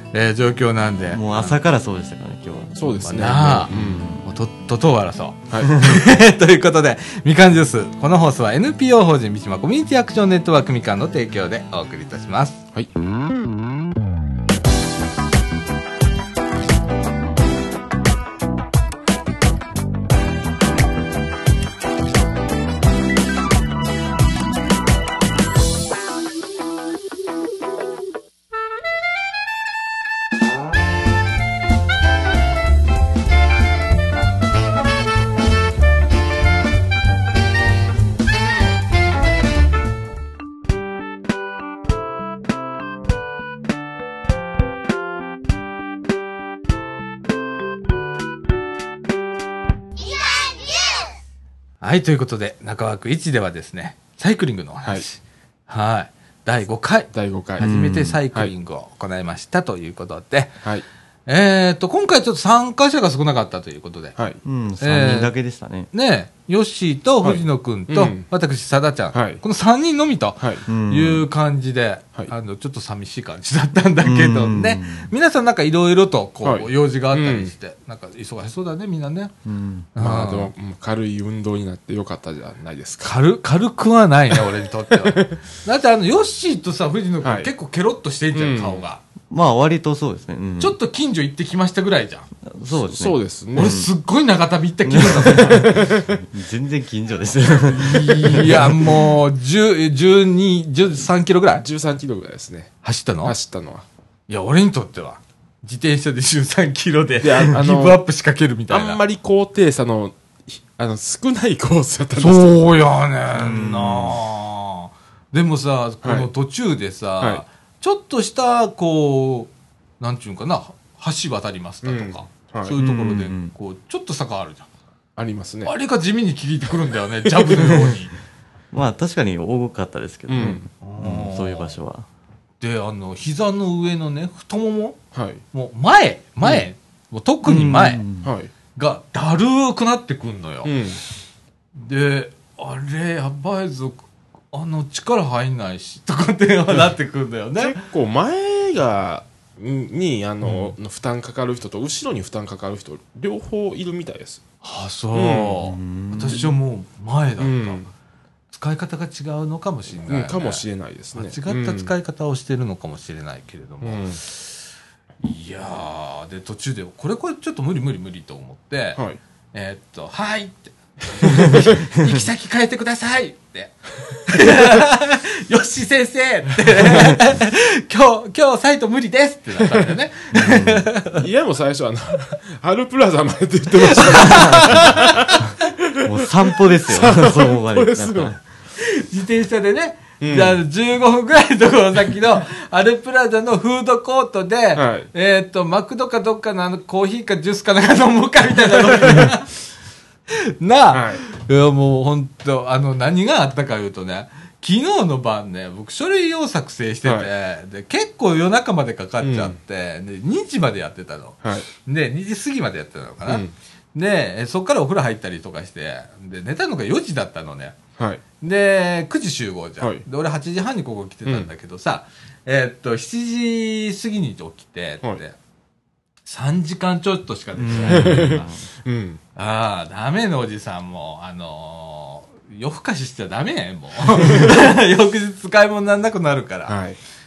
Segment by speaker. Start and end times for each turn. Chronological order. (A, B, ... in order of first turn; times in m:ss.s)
0:00.1-0:01.6 A
0:01.1-0:02.8 B
0:02.8-0:04.2 C
0:03.0-0:12.6 A
0:03.7-0:04.2 B
0:51.8-1:00.6 A
0:57.1-0:57.7 C
0:57.6-0:58.2 B
1:01.3-1:04.2 A
1:04.4-1:05.9 B
1:04.8-1:05.3 A
1:05.9-1:19.3 A
1:07.2-1:08.3 C
1:09.1-1:09.4 C
1:10.4-1:10.6 C
1:10.7-1:11.2 B
1:14.0-1:15.1 B
1:16.4-1:17.5 C
1:19.4-1:19.9 B
1:20.0-1:20.5 A
1:20.0-1:23.2 C
1:23.0-1:29.0 A
1:25.0-1:25.4 C
1:27.2-1:27.5 C
1:28.3-1:28.8 C
1:29.3-1:30.8 B
1:30.6-1:32.3 A
1:32.5-1:33.9 B
1:32.8-1:33.8 C
1:33.6-1:35.8 A
1:34.9-1:38.9 B
1:35.5-1:36.2 C
1:37.7-1:41.6 A
1:38.4-1:38.9 C
1:41.6-1:43.9 C
1:42.8-1:43.4 A
1:44.3-1:49.0 A
1:47.2-1:48.0 C
1:48.7-1:52.6 C
1:52.2-2:04.7 A
1:53.3-1:54.2 B
1:56.0-1:56.3 C
2:01.8-2:02.8 C
2:02.8-2:03.5 B
2:05.2-2:05.7 C
2:05.6-2:08.1 A
2:07.6-2:07.8 C
2:08.7-2:12.1 B
2:10.3-2:10.7 C
2:10.4-2:11.8 A
2:12.6-2:15.0 A
2:15.1-2:15.4 C
2:15.5-2:18.0 A
2:17.4-2:18.3 B
2:18.2-2:18.5 C
2:18.8-2:20.8 A
2:20.6-2:21.0 C
2:21.8-2:27.8 A
2:27.6-2:34.4 C
2:30.5-2:30.7 B
2:34.6-2:37.8 A
2:35.1-2:35.7 C
2:35.7-2:36.5 B
2:37.4-2:37.9 C
2:38.5-2:44.6 A
2:40.1-2:41.9 C
2:43.8-2:44.2 C
2:45.2-2:49.0 A
2:49.5-3:01.3 A
3:00.3-3:00.9 B
3:01.2-3:08.4 C
3:03.9-3:05.4 A
3:04.2-3:08.4 B
3:08.8-3:19.6 A
3:10.2-3:10.6 C
3:14.8-3:15.1 C
3:18.7-3:19.3 C
3:20.6-3:37.8 A
3:20.9-3:21.2 C
3:29.2-3:29.6 C
3:33.3-3:33.5 C
3:38.0-3:38.2 C
3:38.4-3:45.4 A
3:39.8-3:40.0 C
3:46.3-3:48.6 A
3:47.6-3:48.6 B
3:47.9-3:49.2 C
3:49.4-3:56.8 A
3:56.7-3:57.0 C